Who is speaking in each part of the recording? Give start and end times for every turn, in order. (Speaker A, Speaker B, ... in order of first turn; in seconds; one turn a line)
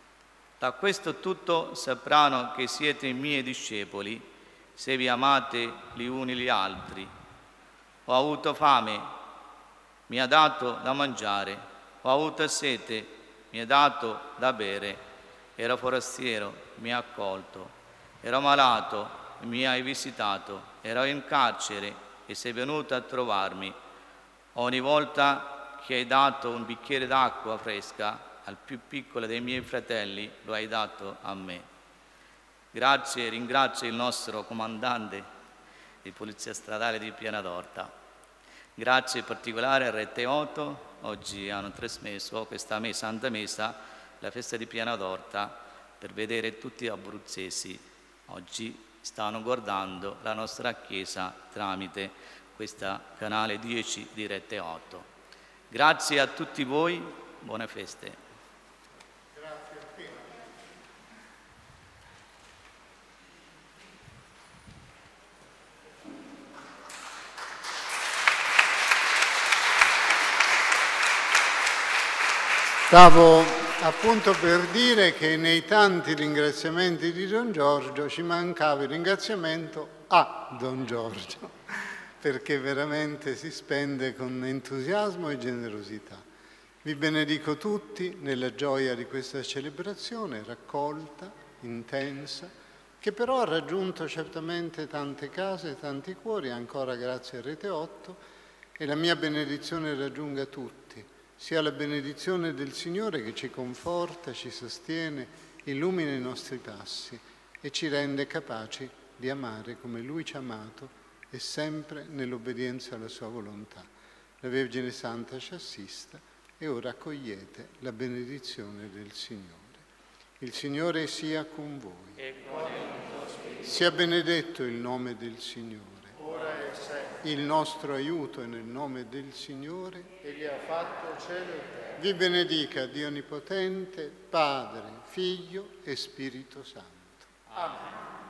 Speaker A: 0.6-4.2
Speaker A: 4.8-7.1
Speaker A: 8.1-9.1
Speaker A: 10.1-15.0
Speaker A: 15.6-17.7
Speaker A: 18.2-23.8
Speaker A: 24.6-31.6
Speaker A: 32.7-35.3
Speaker A: 36.0-37.9
Speaker A: 38.8-55.1
Speaker A: 55.7-58.2
Speaker B: 72.9-86.2
Speaker B: 86.8-98.2
Speaker B: 98.8-113.9
Speaker B: 114.4-119.8
Speaker B: 120.4-122.2
Speaker C: 122.3-123.6
Speaker B: 123.6-126.1
Speaker C: 126.2-127.2
Speaker B: 127.2-130.1
Speaker C: 130.2-132.0
Speaker B: 132.0-137.3
Speaker C: 137.6-137.9